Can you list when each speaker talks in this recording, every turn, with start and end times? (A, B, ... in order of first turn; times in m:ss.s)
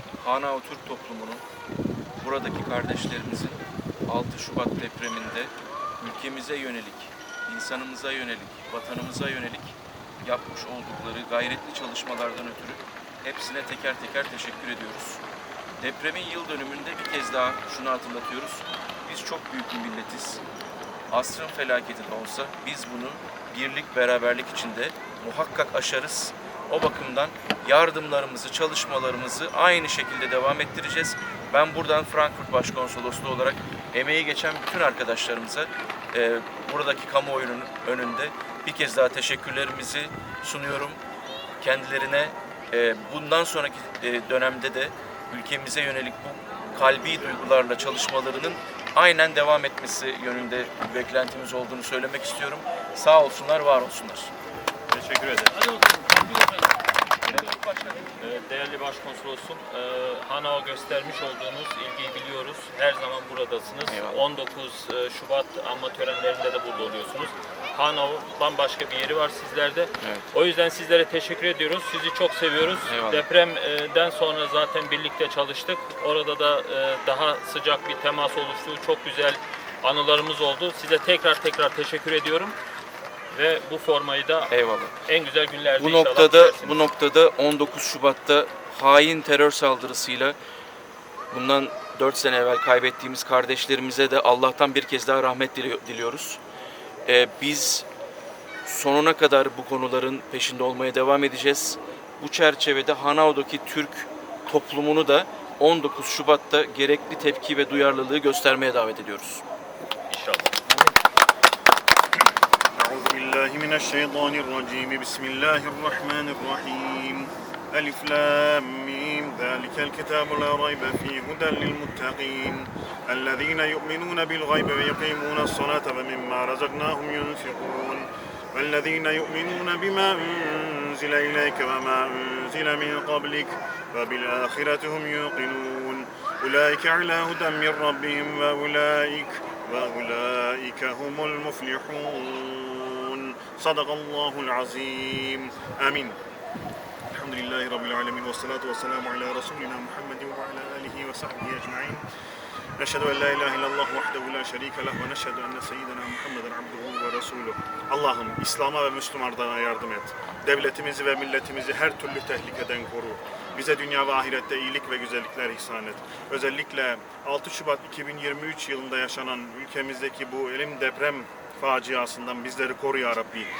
0:00.2-0:01.4 A
0:02.2-0:15.2 A
0:15.8-0:20.4 A
0:21.1-0:41.0 A
0:41.6-0:54.3 A
0:54.9-0:56.8 B
0:57.3-0:58.2 A
0:58.2-1:22.6 B
1:03.9-1:04.2 A
1:12.8-1:13.2 A
1:23.3-1:24.5 B
1:24.5-1:25.0 A
1:25.0-1:26.8 B
1:25.8-1:30.4 A
1:31.3-1:36.4 A
1:37.0-1:37.9 A
1:38.6-1:49.4 A
1:50.1-1:51.0 B
1:52.8-2:26.2 C
2:27.1-2:32.0 C
2:32.8-2:53.5 C